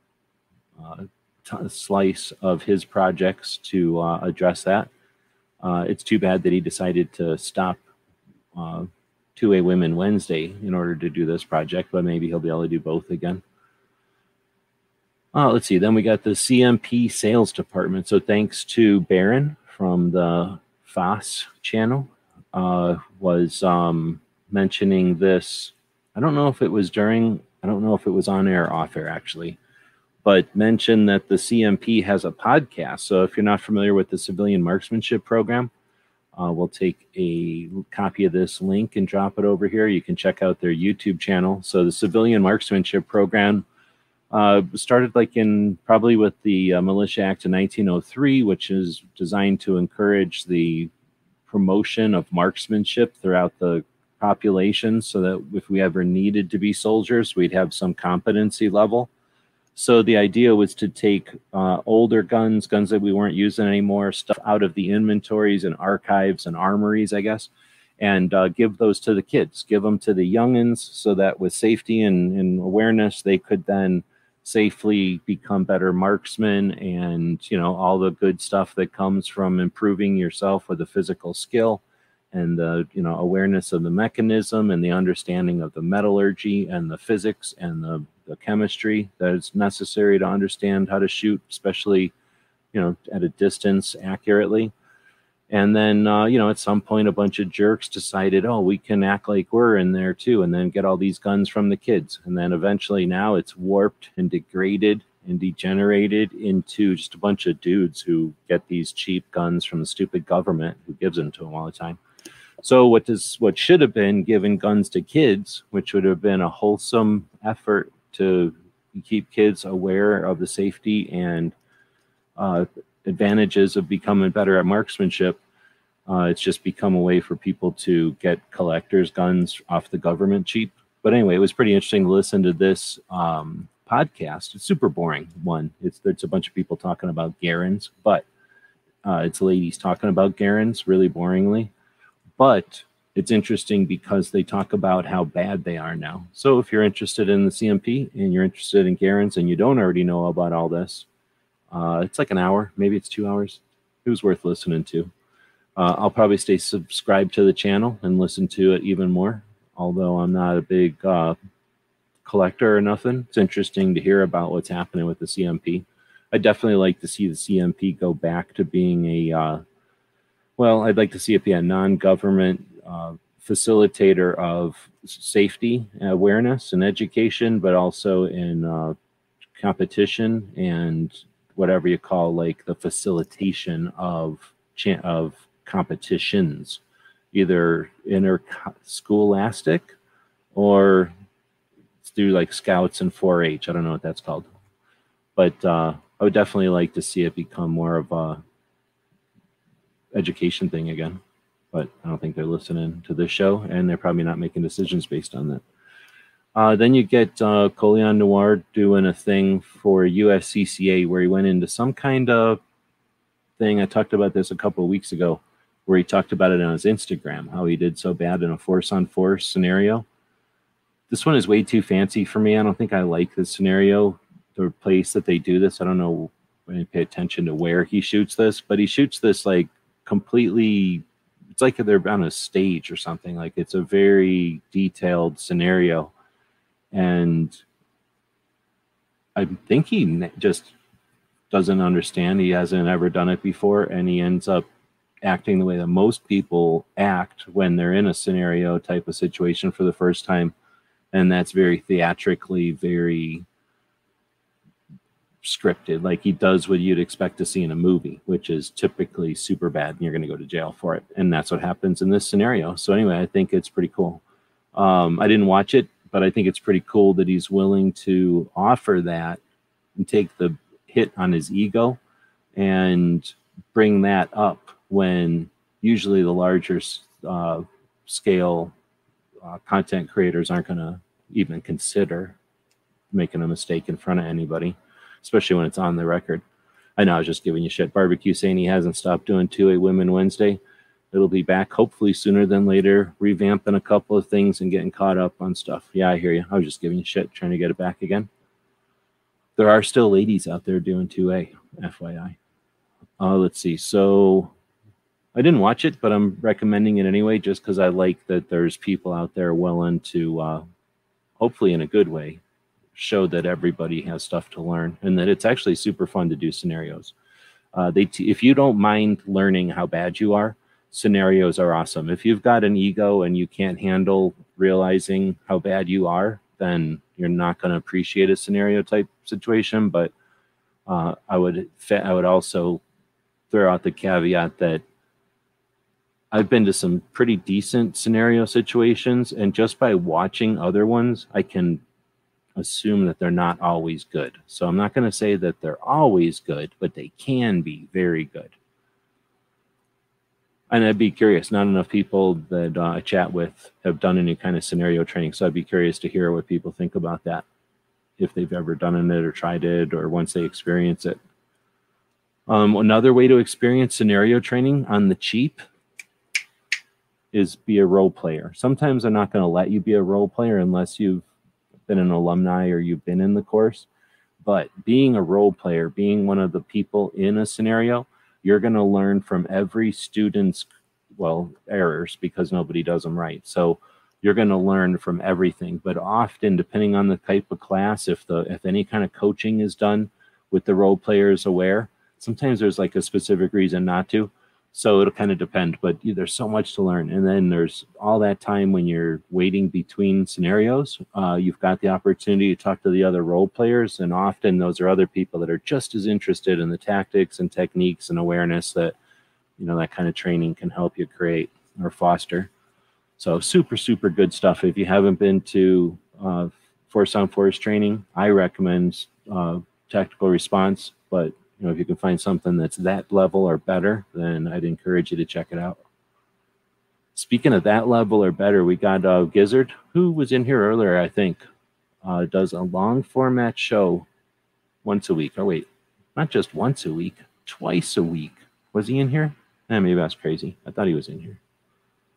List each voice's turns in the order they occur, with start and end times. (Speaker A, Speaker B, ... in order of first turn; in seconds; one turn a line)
Speaker A: 0.8-4.9
Speaker A: 5.6-7.8
Speaker A: 8.5-13.4
Speaker A: 15.3-29.6
Speaker A: 30.2-35.7
Speaker A: 36.4-43.6
Speaker A: 44.3-50.9
Speaker A: 51.5-59.1
Speaker A: 59.7-81.8
Speaker A: 82.3-92.1
Speaker A: 92.7-94.7
Speaker A: 95.5-112.0
Speaker A: 112.6-121.5
Speaker A: 122.4-125.4
Speaker A: 126.1-138.2
Speaker A: 139.0-141.7
Speaker A: 142.4-151.1
Speaker A: 151.7-155.1
Speaker A: 155.8-161.4
Speaker A: 162.2-169.6
Speaker A: 170.6-178.9
Speaker A: 179.6-186.8
Speaker A: 187.3-189.9
Speaker A: 190.5-191.1
Speaker A: 192.0-194.5
Speaker A: 195.3-198.4
Speaker A: 200.1-201.2
Speaker A: 201.7-205.6
Speaker A: 206.5-212.6
Speaker A: 213.6-220.1
Speaker A: 221.1-231.0
Speaker A: 231.5-236.1
Speaker A: 236.9-237.6
Speaker A: 239.3-240.7
Speaker A: 241.5-244.7
Speaker A: 245.2-250.5
Speaker A: 251.1-253.4
Speaker A: 255.4-264.2
Speaker A: 264.7-269.4
Speaker A: 270.0-272.0
Speaker A: 272.6-278.7
Speaker A: 279.4-282.4
Speaker A: 283.1-286.4
Speaker A: 287.0-290.6
Speaker A: 291.1-298.3
Speaker A: 299.6-302.4
Speaker A: 303.2-304.5
Speaker A: 305.3-310.6
Speaker A: 311.4-312.4
Speaker A: 312.9-317.1
Speaker A: 317.7-330.1
Speaker A: 330.9-332.8
Speaker A: 333.5-334.8
Speaker A: 336.3-341.8
Speaker A: 342.6-348.5
Speaker A: 350.7-357.4
Speaker A: 358.2-361.2
Speaker A: 362.5-365.6
Speaker A: 367.3-371.2
Speaker A: 371.9-373.9
Speaker A: 374.4-408.9
Speaker A: 409.6-412.5
Speaker A: 413.2-425.8
Speaker A: 427.1-431.4
Speaker A: 432.0-434.1
Speaker A: 434.8-441.4